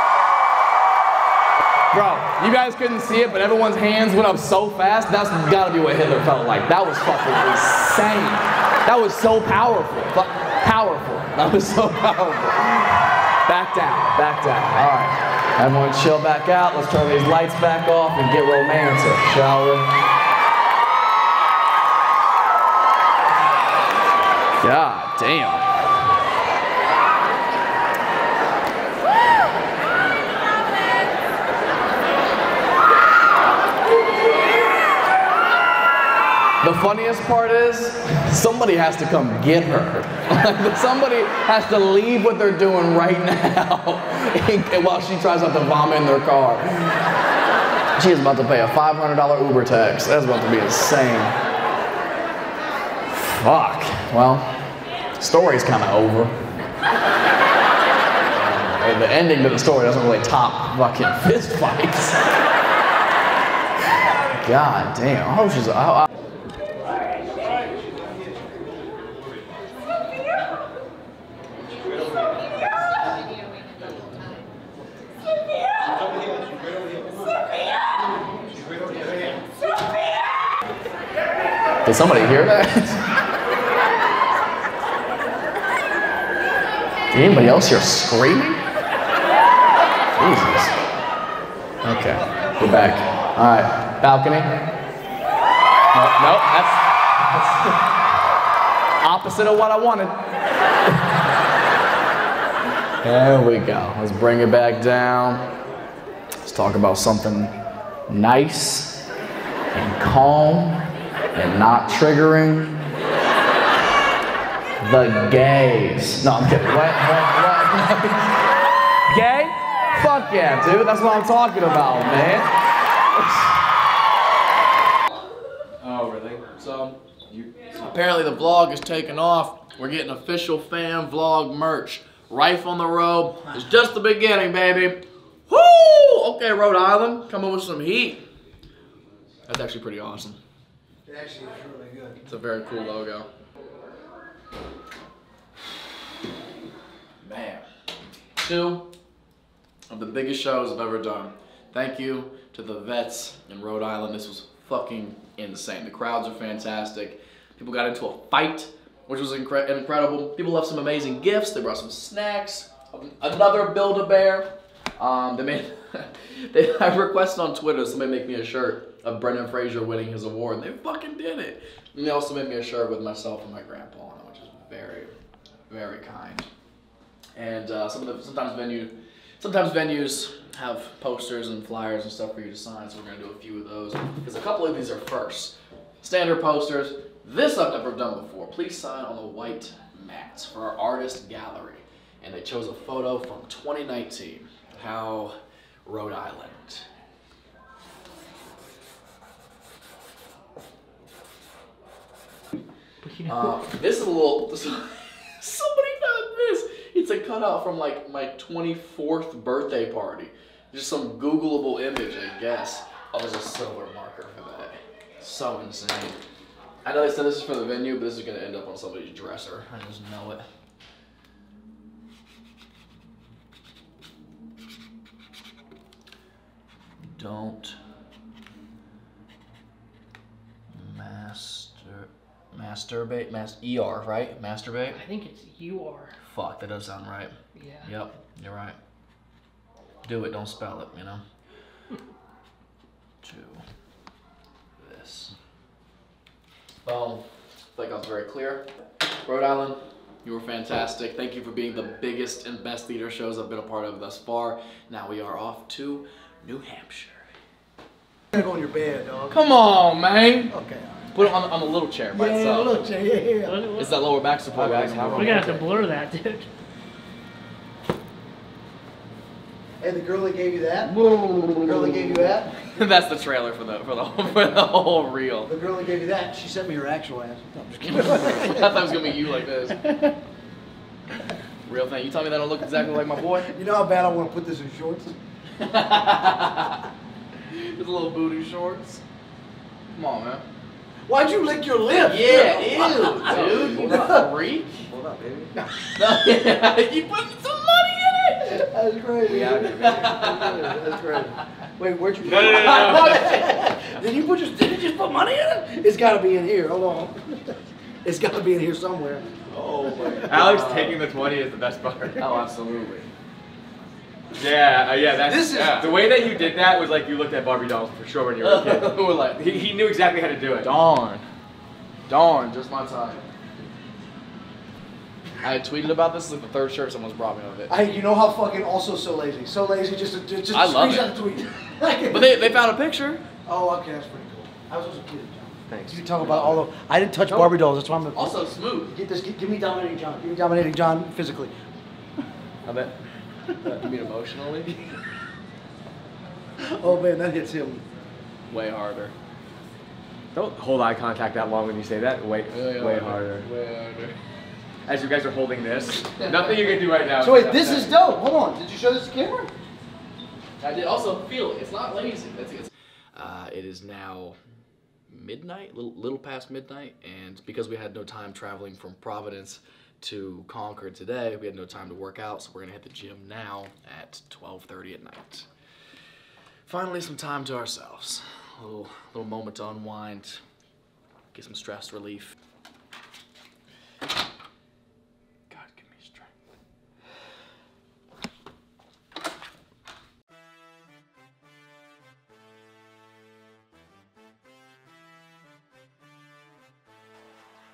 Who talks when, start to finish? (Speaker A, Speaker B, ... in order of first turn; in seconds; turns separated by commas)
Speaker A: 1.9-19.9, Speaker A: 24.6-25.7, Speaker A: 36.6-47.0, Speaker A: 48.0-51.4, Speaker A: 53.1-54.7, Speaker A: 55.2-56.3, Speaker A: 58.3-62.2, Speaker A: 64.3-66.1, Speaker B: 78.7-79.2, Speaker A: 81.8-83.0, Speaker A: 87.1-88.6, Speaker A: 90.2-90.7, Speaker A: 91.8-94.5, Speaker A: 95.9-97.7, Speaker A: 99.0-100.1, Speaker A: 103.0-105.5, Speaker A: 106.4-107.5, Speaker A: 108.1-109.0, Speaker A: 109.7-112.8, Speaker A: 114.8-118.3, Speaker A: 119.1-122.5, Speaker A: 123.1-123.5, Speaker C: 125.8-126.6, Speaker A: 126.6-127.0, Speaker A: 127.7-138.2, Speaker A: 139.5-140.4, Speaker B: 141.1-142.2, Speaker A: 142.2-143.3, Speaker A: 147.2-147.7, Speaker A: 148.4-148.9, Speaker A: 149.9-175.1, Speaker A: 175.7-176.5, Speaker A: 177.3-196.9, Speaker D: 203.0-203.6, Speaker A: 203.2-216.2, Speaker A: 216.8-220.5, Speaker A: 227.1-227.8, Speaker A: 230.7-235.0, Speaker D: 234.9-236.2, Speaker A: 236.2-238.8, Speaker D: 237.5-237.9, Speaker A: 240.0-241.2, Speaker A: 243.2-243.6, Speaker A: 244.8-245.3, Speaker A: 246.8-248.7, Speaker A: 249.2-257.2, Speaker B: 258.3-259.4, Speaker A: 259.3-260.5, Speaker B: 260.5-261.2, Speaker A: 261.1-262.8, Speaker B: 262.1-263.6, Speaker D: 263.4-264.1, Speaker A: 263.7-265.6, Speaker C: 264.5-265.8, Speaker D: 265.1-266.5, Speaker B: 269.8-271.0, Speaker B: 271.6-272.5, Speaker A: 272.7-275.5, Speaker B: 275.5-279.1, Speaker A: 277.8-279.9, Speaker A: 281.6-283.5, Speaker B: 283.5-285.2, Speaker A: 285.6-286.8, Speaker A: 287.5-289.0, Speaker A: 289.9-290.4, Speaker B: 291.1-294.3, Speaker A: 292.0-294.9, Speaker C: 293.2-294.3, Speaker C: 294.9-295.5, Speaker A: 295.9-298.6, Speaker B: 298.4-309.2, Speaker C: 299.2-300.2, Speaker A: 299.6-300.8, Speaker C: 302.2-303.2, Speaker A: 302.4-303.3, Speaker A: 309.5-311.0, Speaker C: 310.2-312.2, Speaker A: 312.2-313.1, Speaker C: 314.3-320.7, Speaker B: 315.2-316.1, Speaker A: 318.4-319.7, Speaker A: 320.6-321.2, Speaker A: 322.1-323.2, Speaker A: 325.4-327.7, Speaker B: 327.7-332.6, Speaker A: 330.5-331.3, Speaker A: 332.0-333.2, Speaker B: 333.4-341.5, Speaker C: 335.7-336.6, Speaker A: 337.3-337.5, Speaker A: 338.1-338.9, Speaker A: 343.6-344.7, Speaker B: 346.6-347.8, Speaker A: 348.5-349.1, Speaker C: 350.3-353.4, Speaker A: 352.5-354.2, Speaker C: 354.9-357.9, Speaker A: 356.2-356.6, Speaker B: 357.2-359.5, Speaker A: 360.6-364.4, Speaker A: 365.1-375.4, Speaker A: 376.6-380.4, Speaker A: 381.3-382.3, Speaker A: 385.5-386.3